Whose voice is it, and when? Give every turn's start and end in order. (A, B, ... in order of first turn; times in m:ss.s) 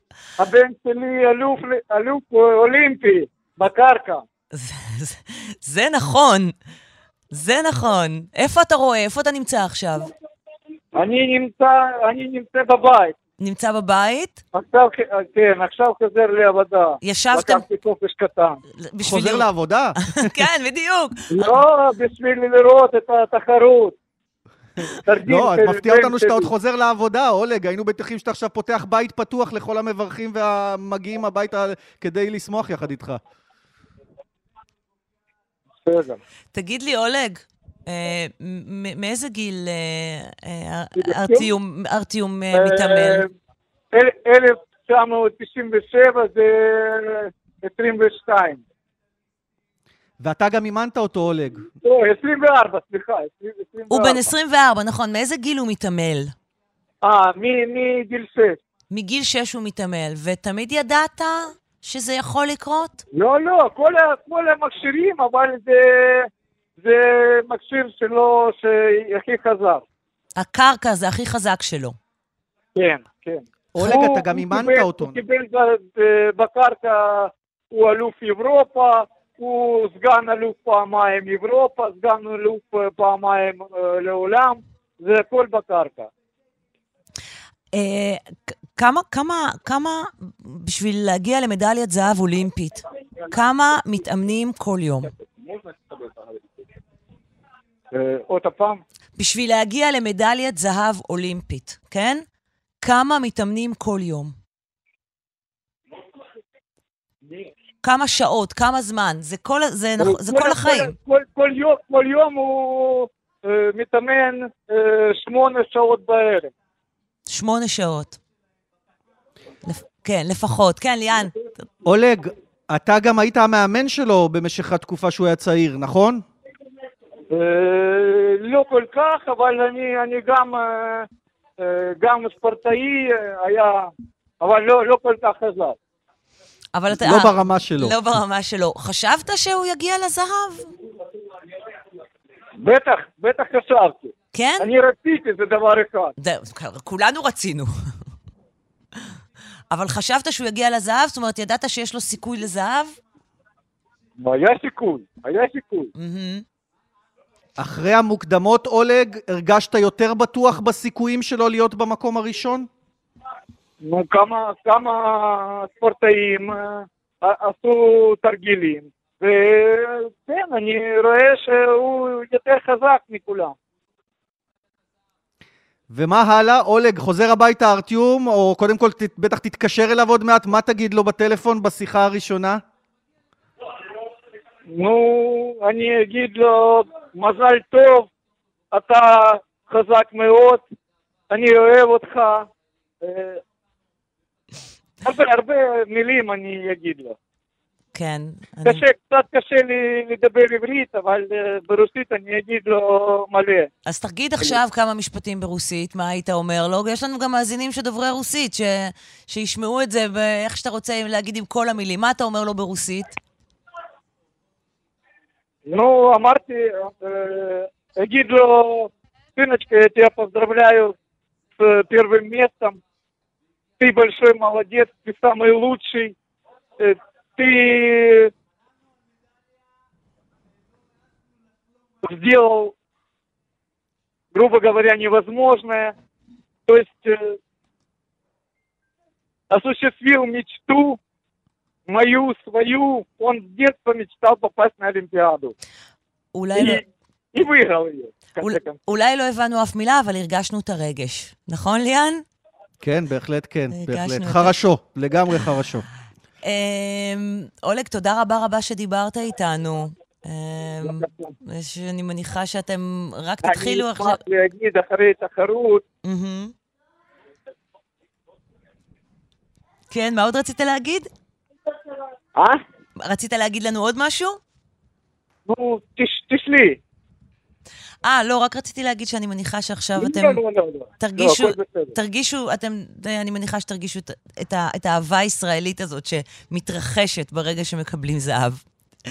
0:00.4-0:04.2 A
0:04.5-0:06.5 B
0:07.3-0:10.1 B
0:10.9-0:13.2 A
0:13.4-0:14.4 B
0:14.5-0:18.6 A
0:17.0-0:17.6 B
0:18.8-0:19.5 B
0:19.0-0:20.3 C
0:20.1-0:21.5 B
0:21.3-0:24.0 A
0:24.8-0:26.5 A
0:25.2-0:33.2 C
0:35.8-0:36.2 A
0:36.5-0:43.3 B
0:41.0-0:41.5 A
0:42.5-0:43.3 A
0:43.9-0:48.6 A
0:50.2-0:51.6 C
0:51.8-0:54.3 A
0:53.9-0:56.3 B
0:57.0-0:58.6 A
0:58.9-1:03.0 B
1:03.1-1:06.3 A
1:06.8-1:09.8 A
1:10.4-1:12.0 B
1:12.7-1:26.1 A
1:13.7-1:15.2 C
1:27.7-1:35.1 B
1:35.3-1:36.4 A
1:37.9-1:38.8 A
1:39.2-1:42.2 B
1:42.8-1:44.3 B
1:47.8-1:50.9 B
1:50.0-1:56.5 A
1:57.3-1:58.2 B
1:59.6-2:01.4 B
2:01.8-2:06.2 C
2:07.3-2:11.1 A
2:11.6-2:15.8 A
2:16.7-2:20.7 B
2:16.9-2:18.0 C
2:22.6-2:26.1 A
2:24.3-2:24.7 B
2:26.2-2:27.7 B
2:29.7-2:32.9 B
2:34.2-2:35.9 A
2:36.0-2:36.4 B
2:37.6-2:42.7 C
2:43.8-2:53.5 A
2:55.9-3:02.6 C
3:04.7-3:08.1 A
3:08.7-3:10.6 A
3:11.3-3:12.5 A
3:13.0-3:13.4 A
3:15.0-3:17.2 A
3:17.9-3:18.8 B
3:18.6-3:23.7 A
3:23.8-3:33.2 B
3:35.6-3:40.9 A
3:41.6-3:42.8 A
3:43.8-3:46.1 A
3:46.8-3:48.3 A
3:52.0-3:52.7 A
3:54.3-3:55.9 A
3:56.7-3:57.4 A
3:59.5-4:01.0 A
4:01.9-4:05.5 A
4:06.3-4:06.8 B
4:06.5-4:06.8 A
4:07.3-4:08.8 A
4:08.4-4:12.2 B
4:12.8-4:15.8 C
4:13.7-4:14.5 B
4:16.4-4:24.2 B
4:20.8-4:21.3 A
4:23.4-4:25.8 A
4:26.0-4:26.5 B
4:29.9-4:31.1 B
4:32.3-4:32.6 A
4:33.0-4:34.4 B
4:35.4-4:36.8 A
4:38.0-4:40.4 B
4:40.0-4:42.0 A
4:41.0-4:48.6 B